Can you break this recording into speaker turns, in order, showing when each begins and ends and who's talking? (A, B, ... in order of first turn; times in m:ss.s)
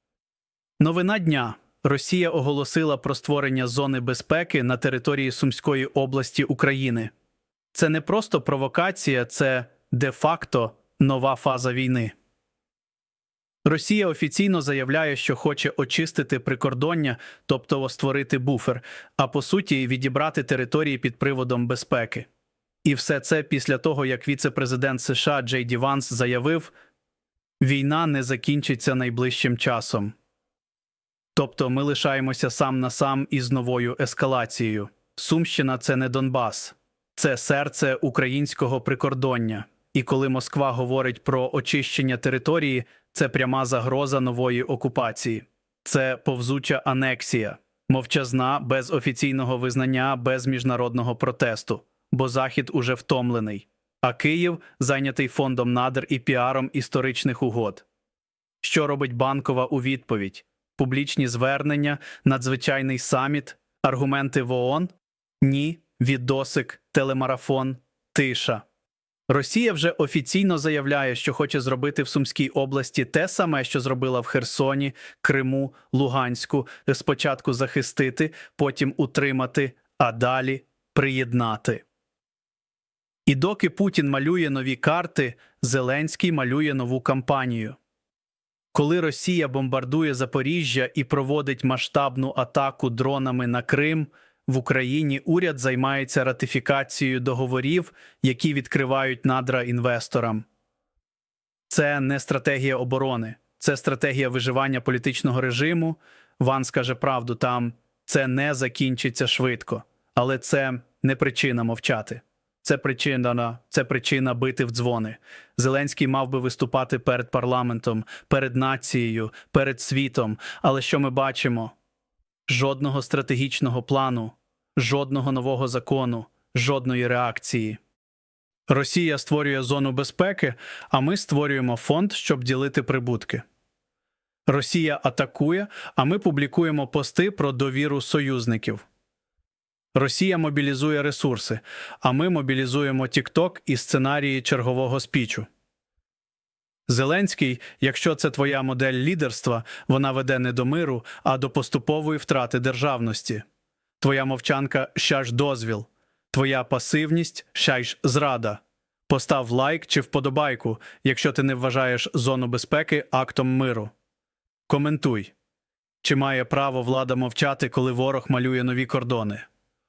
0:00.8-0:07.1 A
0:07.7-0:12.1 A
0:13.6-0:22.3 A
0:22.8-0:26.7 A
0:27.6-0:30.1 A
0:31.3-0:57.8 A
0:58.6-1:08.6 A
1:09.3-1:21.8 A
1:23.3-1:27.8 A
1:28.7-1:40.4 A
1:41.7-2:01.7 A
2:02.5-2:07.8 A
2:08.7-2:13.4 A
2:14.5-2:18.8 A
2:19.9-2:25.5 A
2:26.9-2:33.4 A
2:34.0-2:43.9 A
2:44.7-2:45.3 A
2:46.0-2:49.5 A